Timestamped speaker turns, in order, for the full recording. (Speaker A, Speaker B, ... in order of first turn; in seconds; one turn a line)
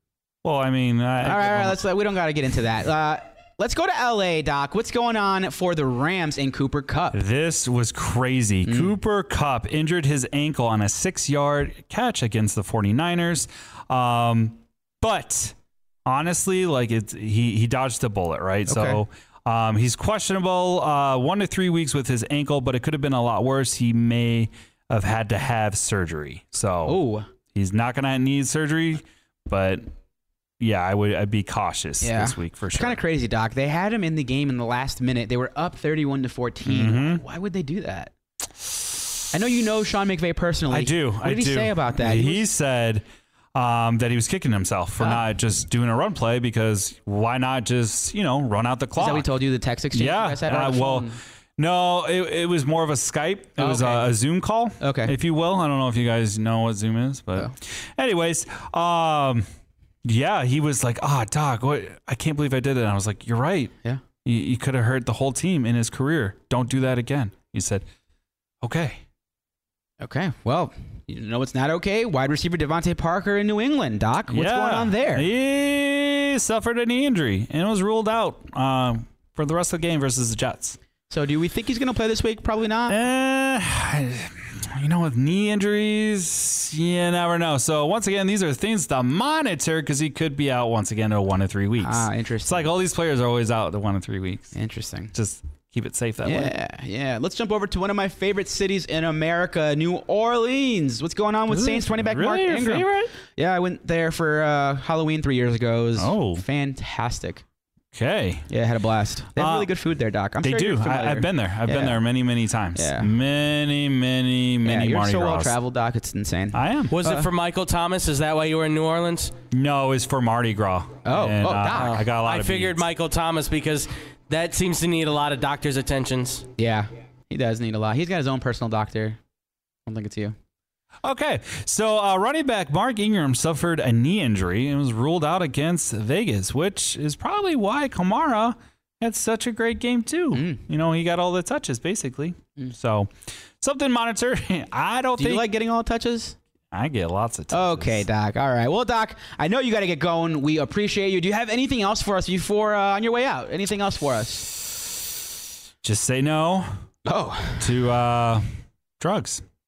Speaker A: 0.4-1.8
Speaker B: 1.2-7.2
Speaker A: 7.1-15.5
Speaker B: 8.7-8.9
Speaker A: 16.1-27.0
Speaker B: 18.7-19.0
Speaker B: 26.9-27.3
Speaker A: 27.5-29.9
Speaker A: 30.6-33.0
Speaker B: 32.0-38.1
Speaker A: 36.6-37.2
Speaker B: 39.3-42.4
Speaker A: 40.7-43.0
Speaker A: 43.5-49.3
Speaker B: 49.0-51.2
Speaker A: 49.9-59.5
Speaker B: 53.6-54.1
Speaker B: 54.8-55.1
Speaker A: 60.0-63.7
Speaker A: 64.2-67.8
Speaker A: 68.6-69.0
Speaker B: 70.0-75.3
Speaker A: 74.3-80.8
Speaker B: 81.1-83.0
Speaker A: 82.9-94.5
Speaker B: 91.8-92.7
Speaker B: 94.5-95.1
Speaker A: 95.1-96.5
Speaker B: 96.2-107.4
Speaker A: 101.5-103.1
Speaker A: 106.0-106.4
Speaker A: 107.9-108.5
Speaker B: 108.5-112.0
Speaker A: 109.4-109.7
Speaker A: 110.4-115.5
Speaker B: 112.7-113.1
Speaker B: 114.6-117.3
Speaker A: 116.5-116.9
Speaker C: 116.9-119.3
Speaker A: 119.5-122.8
Speaker B: 121.0-122.0
Speaker C: 121.7-126.5
Speaker B: 126.6-129.2
Speaker B: 129.8-130.3
Speaker A: 131.0-145.5
Speaker B: 140.3-140.6
Speaker B: 145.2-146.4
Speaker A: 146.7-148.0
Speaker B: 147.5-154.5
Speaker A: 155.8-156.7
Speaker B: 157.0-157.8
Speaker A: 157.6-158.5
Speaker A: 159.0-159.4